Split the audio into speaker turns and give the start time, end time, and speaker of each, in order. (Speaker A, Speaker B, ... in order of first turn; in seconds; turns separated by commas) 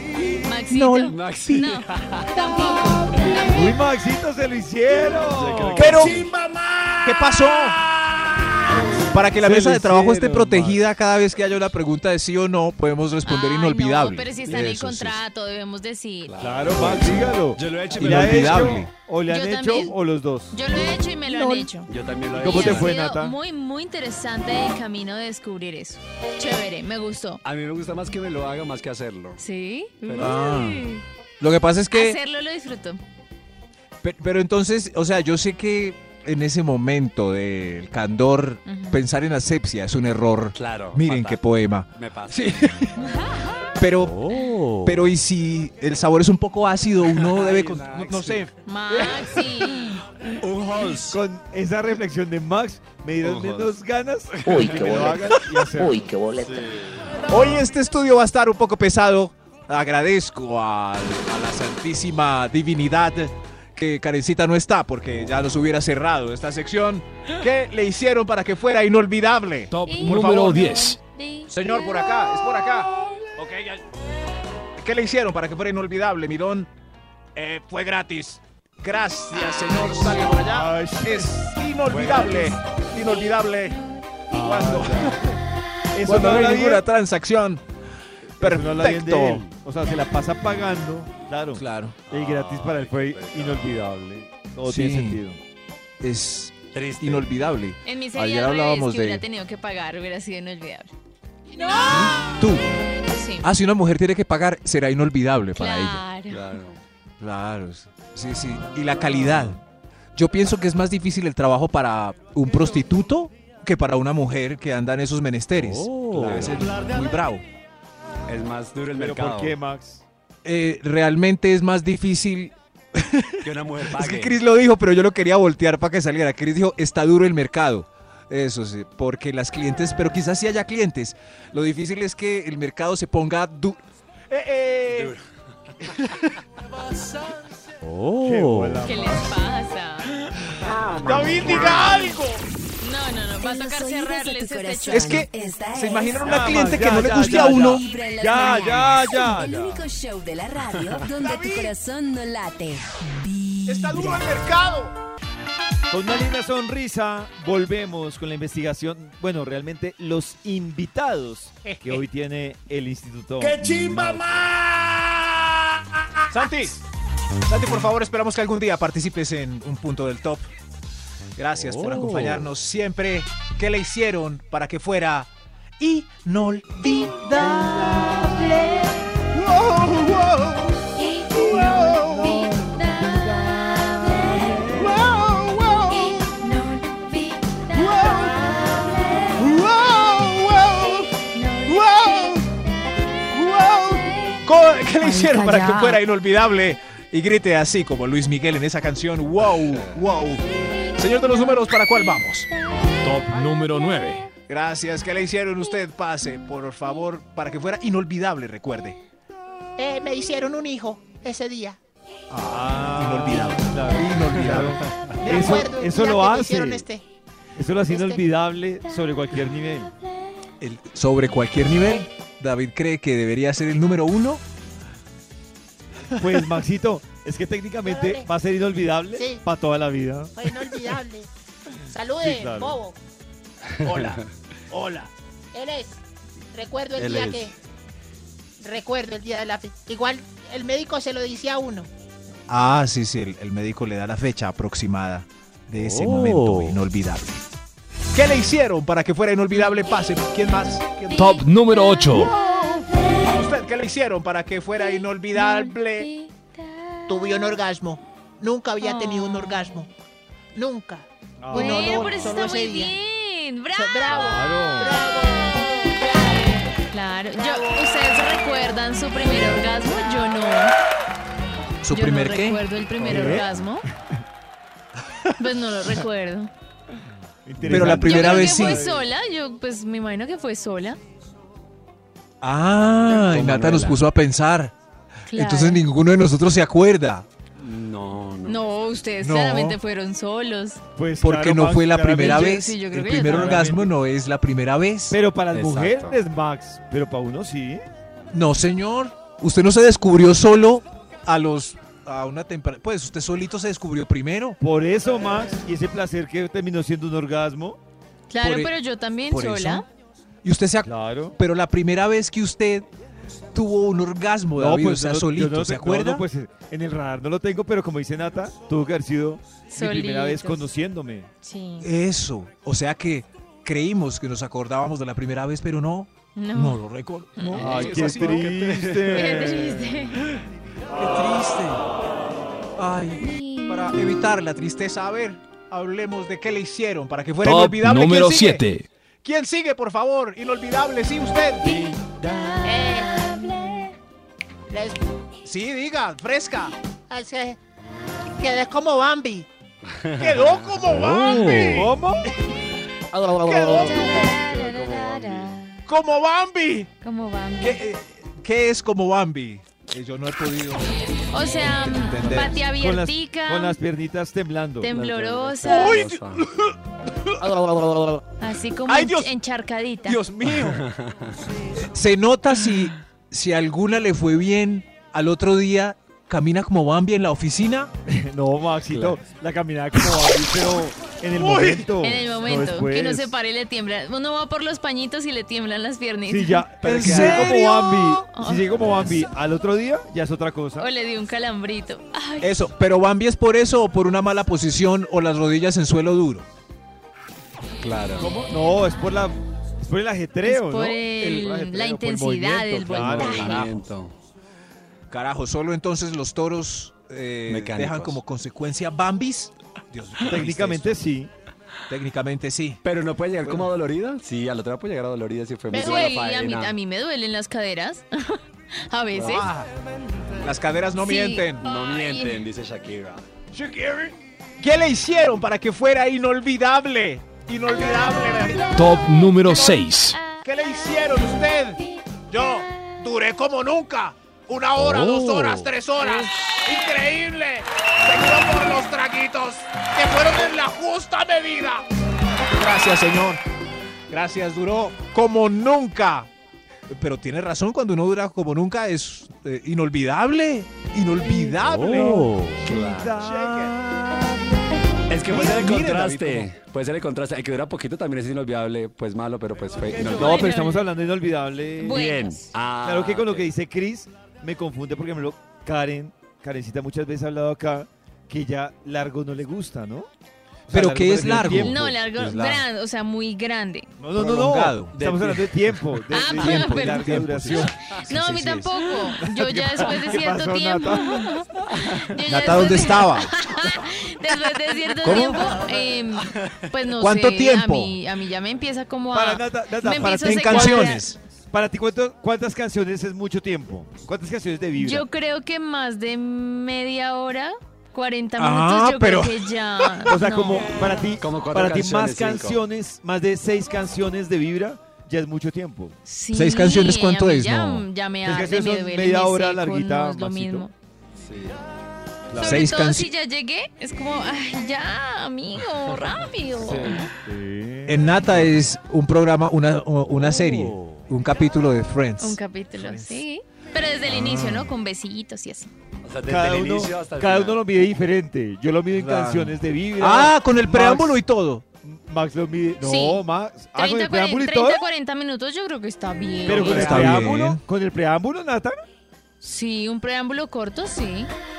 Speaker A: 0.4-3.8, Speaker B: 0.7-1.7, Speaker C: 1.1-2.4, Speaker D: 2.6-3.4, Speaker E: 3.4-6.2, Speaker C: 5.2-7.2, Speaker B: 5.7-6.3, Speaker B: 7.0-7.9, Speaker C: 8.1-8.5, Speaker E: 8.8-10.7, Speaker B: 9.0-15.2, Speaker C: 10.3-10.7, Speaker A: 13.2-16.3, Speaker C: 16.2-18.8, Speaker E: 16.4-20.6, Speaker B: 17.9-18.9, Speaker A: 19.3-19.9, Speaker A: 20.5-27.4, Speaker C: 21.9-23.0, Speaker E: 22.4-23.4, Speaker C: 27.4-29.4, Speaker A: 29.4-31.0, Speaker C: 30.1-30.4, Speaker B: 30.2-32.2, Speaker A: 31.9-33.0, Speaker B: 34.0-43.0, Speaker A: 38.7-39.0, Speaker C: 40.6-41.4, Speaker C: 42.0-42.7, Speaker A: 43.0-43.6, Speaker B: 43.8-44.2, Speaker F: 44.0-45.1, Speaker B: 44.8-48.5, Speaker C: 47.1-48.4, Speaker A: 48.6-50.0, Speaker C: 50.4-51.2, Speaker E: 51.1-56.0, Speaker C: 53.2-53.7, Speaker C: 54.5-55.5, Speaker G: 54.5-56.7, Speaker C: 56.4-57.2, Speaker B: 57.3-70.8, Speaker F: 69.7-71.0, Speaker A: 69.8-71.5, Speaker B: 71.5-73.8, Speaker B: 74.8-76.7, Speaker B: 77.3-85.3, Speaker E: 80.5-81.5, Speaker C: 81.9-82.5, Speaker E: 84.3-85.2, Speaker E: 85.9-86.8, Speaker B: 86.0-87.6, Speaker E: 88.4-95.4, Speaker B: 88.4-89.5, Speaker B: 91.5-92.0, Speaker C: 92.1-93.8, Speaker B: 94.7-95.2, Speaker B: 96.0-99.2, Speaker C: 96.7-97.4, Speaker A: 97.8-100.9, Speaker D: 101.5-102.4, Speaker A: 101.6-102.3, Speaker B: 101.8-102.7, Speaker A: 103.1-103.5, Speaker B: 103.4-106.0, Speaker A: 105.6-106.4, Speaker C: 106.3-106.8, Speaker B: 107.2-109.6, Speaker B: 110.2-117.4, Speaker F: 115.6-116.5, Speaker C: 116.1-116.7, Speaker C: 118.3-119.6, Speaker E: 119.0-120.0, Speaker B: 120.4-133.8, Speaker C: 123.4-124.4, Speaker B: 134.3-135.2, Speaker C: 134.9-135.2, Speaker B: 136.0-136.3, Speaker F: 137.8-138.9, Speaker E: 138.2-139.4, Speaker A: 138.8-140.1, Speaker B: 140.3-142.4, Speaker C: 141.1-141.4, Speaker D: 141.6-142.0, Speaker A: 141.6-142.2, Speaker A: 142.8-145.2, Speaker H: 143.4-154.3, Speaker B: 144.9-147.8, Speaker E: 146.2-149.9, Speaker B: 151.2-151.7, Speaker B: 153.7-154.9, Speaker E: 155.9-163.7, Speaker D: 161.7-161.9, Speaker B: 163.6-165.1, Speaker B: 166.3-166.8, Speaker B: 167.5-170.5, Speaker B: 171.4-180.7, Speaker F: 171.6-172.4, Speaker B: 181.3-182.5, Speaker E: 181.9-183.6, Speaker E: 184.3-184.9, Speaker B: 184.7-186.4, Speaker A: 186.4-187.8, Speaker B: 187.7-188.5, Speaker A: 189.1-189.4, Speaker B: 189.3-191.1, Speaker A: 191.3-191.7, Speaker B: 191.7-192.5, Speaker B: 193.3-200.4, Speaker A: 195.0-196.0, Speaker B: 201.0-202.5, Speaker F: 203.0-204.3, Speaker B: 204.5-209.0, Speaker D: 209.8-211.8, Speaker B: 212.3-214.8, Speaker E: 212.5-216.8, Speaker D: 215.2-217.0, Speaker E: 217.6-219.9, Speaker D: 217.9-218.2, Speaker B: 220.6-224.4, Speaker E: 226.2-230.3, Speaker D: 227.8-228.3, Speaker D: 229.2-229.4, Speaker D: 230.4-231.3, Speaker D: 231.9-232.9, Speaker E: 232.2-232.8, Speaker C: 233.8-234.2, Speaker B: 233.8-235.1, Speaker D: 235.5-236.0, Speaker D: 236.5-237.6, Speaker C: 237.0-237.5, Speaker D: 238.6-241.9, Speaker B: 242.5-247.4, Speaker F: 245.7-246.8, Speaker B: 248.1-251.4, Speaker F: 251.1-252.3, Speaker B: 252.1-256.1, Speaker A: 255.3-256.3, Speaker D: 257.1-259.9, Speaker A: 258.8-259.8, Speaker D: 260.5-262.9, Speaker E: 261.4-262.1, Speaker A: 261.5-264.3, Speaker D: 263.7-266.5, Speaker E: 264.1-265.0, Speaker A: 266.9-270.7, Speaker B: 271.8-272.6, Speaker A: 271.9-273.9, Speaker E: 273.1-273.5, Speaker C: 273.1-273.5, Speaker A: 275.4-276.5, Speaker E: 277.5-279.0, Speaker B: 277.6-278.9, Speaker A: 277.8-281.0, Speaker B: 282.4-284.7, Speaker C: 283.1-284.0, Speaker A: 285.3-285.8, Speaker B: 285.3-287.3, Speaker C: 287.6-288.6, Speaker A: 288.5-290.8, Speaker B: 289.2-289.8, Speaker E: 291.0-293.9, Speaker B: 291.2-295.2, Speaker A: 292.1-293.6, Speaker E: 295.1-297.9, Speaker C: 295.5-296.2, Speaker B: 298.3-304.6, Speaker E: 304.6-307.8, Speaker A: 308.3-309.9, Speaker B: 308.4-308.7, Speaker B: 309.3-309.9, Speaker B: 310.4-312.9, Speaker E: 310.8-311.4, Speaker B: 313.5-316.3, Speaker E: 314.6-321.3, Speaker A: 319.7-320.7, Speaker A: 321.4-321.9, Speaker B: 321.8-329.4, Speaker A: 326.4-326.8, Speaker A: 327.4-328.2, Speaker E: 327.6-329.9, Speaker A: 329.1-330.3, Speaker B: 330.9-331.8, Speaker B: 332.8-338.6, Speaker F: 337.4-338.9, Speaker B: 339.2-341.8, Speaker D: 342.6-343.3, Speaker D: 344.7-345.0, Speaker B: 345.4-346.8, Speaker D: 347.1-347.6, Speaker D: 348.4-349.5, Speaker C: 349.9-350.5, Speaker B: 350.2-351.9, Speaker F: 350.8-351.9, Speaker D: 351.1-351.6, Speaker E: 351.7-352.2, Speaker B: 353.3-354.1, Speaker D: 353.4-354.0, Speaker A: 353.6-355.8, Speaker C: 354.1-355.6, Speaker B: 355.9-356.9, Speaker A: 357.0-357.8, Speaker B: 357.6-362.6, Speaker A: 361.3-363.8, Speaker E: 362.3-364.9, Speaker A: 364.8-366.1, Speaker C: 364.9-366.4, Speaker B: 365.6-367.9, Speaker A: 368.4-370.2, Speaker B: 368.9-369.3, Speaker B: 370.1-370.8, Speaker C: 370.5-371.4, Speaker B: 371.8-377.9, Speaker E: 378.1-383.3, Speaker C: 378.9-379.2, Speaker B: 381.4-381.9, Speaker A: 382.0-388.6, Speaker E: 386.3-390.9, Speaker B: 386.8-387.7, Speaker A: 390.8-392.5, Speaker B: 392.4-396.5, Speaker C: 397.8-398.4, Speaker E: 398.2-403.7, Speaker A: 400.5-403.7, Speaker C: 402.9-404.1, Speaker B: 403.3-403.7, Speaker B: 405.1-411.0, Speaker C: 407.5-408.2, Speaker E: 410.2-411.3, Speaker B: 411.9-412.8, Speaker C: 412.8-416.8, Speaker D: 415.7-416.2, Speaker A: 415.7-419.5, Speaker B: 419.2-419.7, Speaker B: 420.4-421.6, Speaker A: 421.0-422.4, Speaker C: 421.6-423.2, Speaker B: 423.5-428.7, Speaker F: 428.8-430.3, Speaker B: 430.4-431.8, Speaker B: 432.3-436.3, Speaker F: 434.8-435.7, Speaker D: 434.9-441.8, Speaker B: 436.9-437.5, Speaker B: 439.1-439.4, Speaker B: 442.5-443.4, Speaker B: 444.1-446.3, Speaker B: 446.9-452.4, Speaker F: 451.6-452.7, Speaker E: 452.1-453.7, Speaker C: 452.6-453.2, Speaker B: 453.1-454.3, Speaker C: 455.1-460.6, Speaker B: 455.2-456.5, Speaker E: 460.0-462.0, Speaker A: 460.2-460.8, Speaker A: 461.8-462.5, Speaker C: 461.9-463.5, Speaker E: 462.8-470.1, Speaker E: 470.7-471.9, Speaker B: 470.7-472.6, Speaker A: 471.6-473.9, Speaker E: 474.0-477.8, Speaker B: 474.1-474.9, Speaker C: 474.9-475.8, Speaker A: 476.1-477.1, Speaker B: 476.2-478.7, Speaker A: 477.9-491.1, Speaker E: 479.2-481.3, Speaker B: 482.2-483.5, Speaker B: 485.0-485.6, Speaker B: 487.0-488.0, Speaker E: 489.1-495.1, Speaker B: 490.0-491.2, Speaker A: 494.8-500.7, Speaker B: 498.4-500.1, Speaker E: 500.1-506.0, Speaker C: 501.2-502.6, Speaker A: 506.1-510.7, Speaker B: 506.3-507.9, Speaker E: 508.2-510.7, Speaker C: 511.2-511.6, Speaker E: 512.3-512.6, Speaker B: 512.4-513.1, Speaker A: 512.4-517.1, Speaker E: 516.7-518.2, Speaker B: 517.9-523.2, Speaker F: 520.3-521.0, Speaker A: 522.2-525.7, Speaker B: 524.0-524.7, Speaker C: 526.0-527.6, Speaker E: 526.3-531.2, Speaker B: 528.9-531.6, Speaker E: 531.8-534.8, Speaker A: 532.8-533.2, Speaker A: 533.8-537.3, Speaker E: 536.5-538.8, Speaker B: 536.5-537.6, Speaker A: 539.4-541.3